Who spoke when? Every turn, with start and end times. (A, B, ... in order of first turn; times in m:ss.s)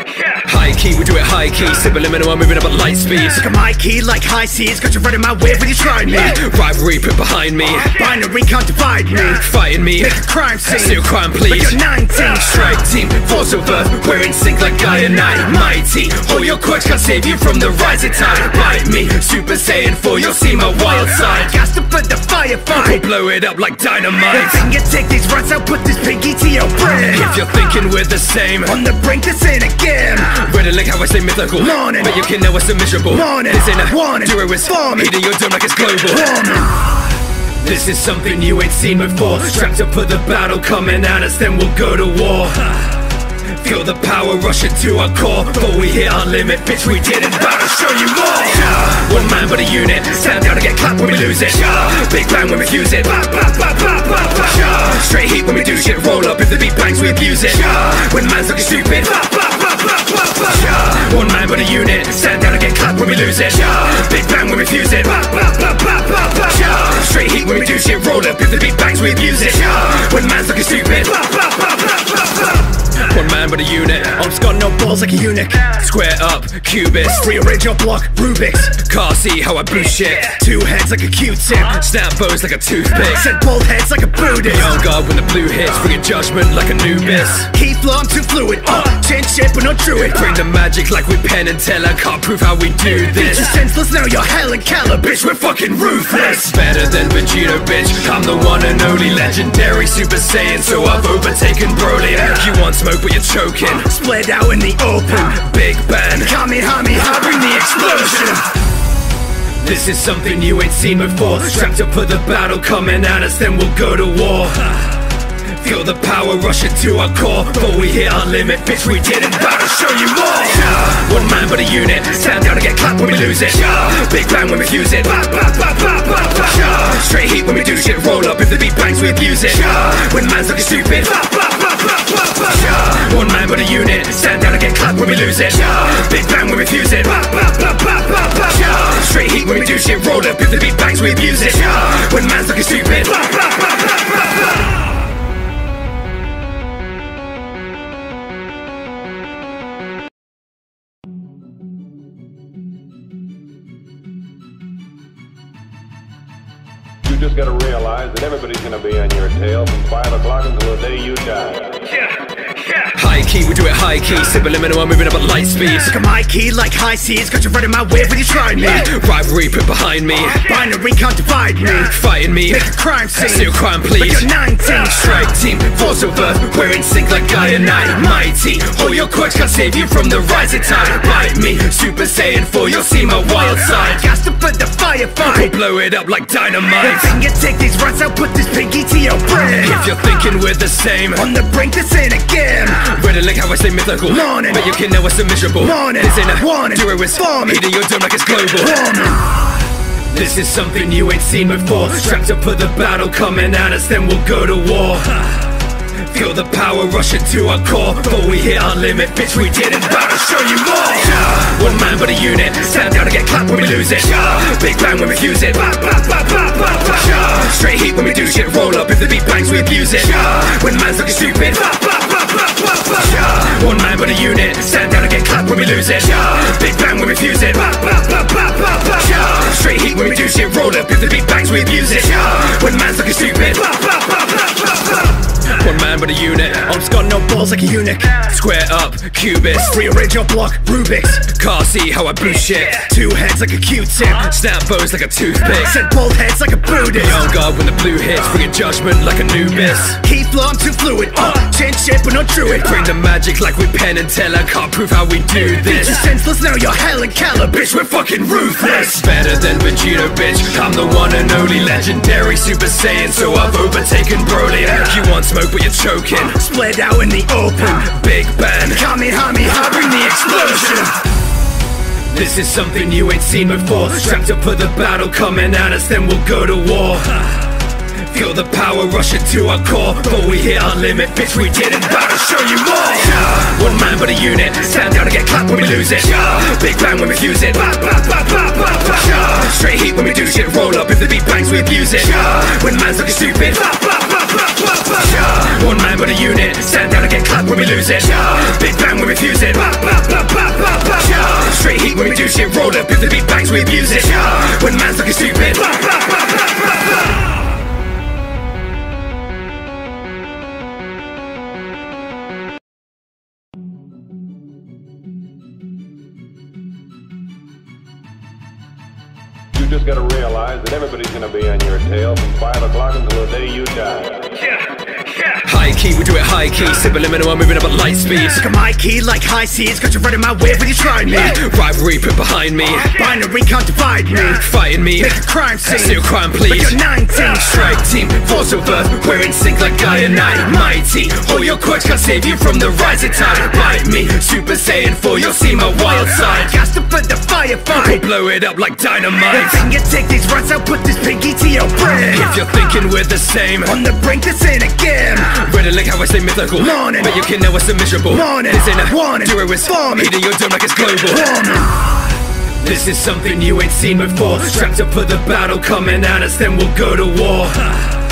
0:00.4-0:03.4 A
0:03.4-0:06.4 B
0:06.3-0:07.9 A
0:07.9-0:09.4 B
0:09.4-0:21.5 A
0:10.0-0:11.0 B
0:11.5-0:12.4 B
0:21.4-0:23.0 B
0:23.0-0:24.6 A
0:24.4-0:27.2 B
0:27.1-0:28.8 A
0:28.7-0:30.4 B
0:30.3-0:36.4 A
0:37.6-0:59.6 A
1:00.3-1:11.6 A
1:13.0-1:14.2 A
1:14.2-1:15.7 B
1:15.7-1:17.3 A
1:17.2-1:18.8 B
1:18.8-1:20.4 A
1:20.3-1:21.7 B
1:21.6-1:23.2 A
1:23.1-1:24.7 B
1:24.5-1:27.5 A
1:27.5-1:30.2 B
1:30.1-1:33.5 A
1:33.2-1:35.2 B
1:35.2-1:43.9 A
1:43.9-1:45.4 B
1:45.4-1:46.3 A
1:46.2-1:48.1 B
1:49.6-1:54.9 A
1:55.4-2:11.6 A
2:12.2-2:23.5 A
2:37.0-2:41.8 C
2:42.9-2:45.9 A
2:45.9-2:48.9 B
2:48.8-2:50.5 A
2:50.4-2:51.9 B
2:51.9-3:04.0 A
2:52.5-2:53.4 B
2:54.0-2:54.9 B
3:03.9-3:05.5 B
3:05.5-3:07.1 A
3:06.9-3:09.7 B
3:09.6-3:11.2 A
3:11.2-3:12.9 B
3:12.9-3:18.9 A
3:15.8-3:16.7 B
3:18.9-3:19.2 B
3:20.1-3:42.2 A
3:42.8-3:54.0 A
3:55.4-3:56.7 A
3:56.7-3:58.3 B
3:58.2-3:59.8 A
3:59.7-4:01.3 B
4:01.3-4:02.9 A
4:02.8-4:04.2 B
4:04.1-4:05.7 A
4:05.6-4:07.2 B
4:07.0-4:10.0 A
4:10.0-4:12.6 B
4:12.6-4:16.0 A
4:15.8-4:17.7 B
4:17.7-4:26.4 A
4:26.4-4:28.0 B
4:27.9-4:28.8 A
4:28.7-4:30.6 B
4:30.5-4:30.9 A
4:32.1-4:37.4 A
4:37.9-4:54.2 A
4:54.8-5:06.0 A
5:19.5-5:24.4 C
5:25.4-5:28.4 A
5:28.4-5:31.3 B
5:31.3-5:32.9 A
5:32.9-5:34.4 B
5:34.4-5:46.5 A
5:35.0-5:36.0 B
5:36.5-5:37.3 B
5:46.4-5:48.0 B
5:48.0-5:49.6 A
5:49.4-5:52.2 B
5:52.1-5:53.7 A
5:53.7-5:55.4 B
5:55.3-6:01.4 A
6:02.6-6:07.9 A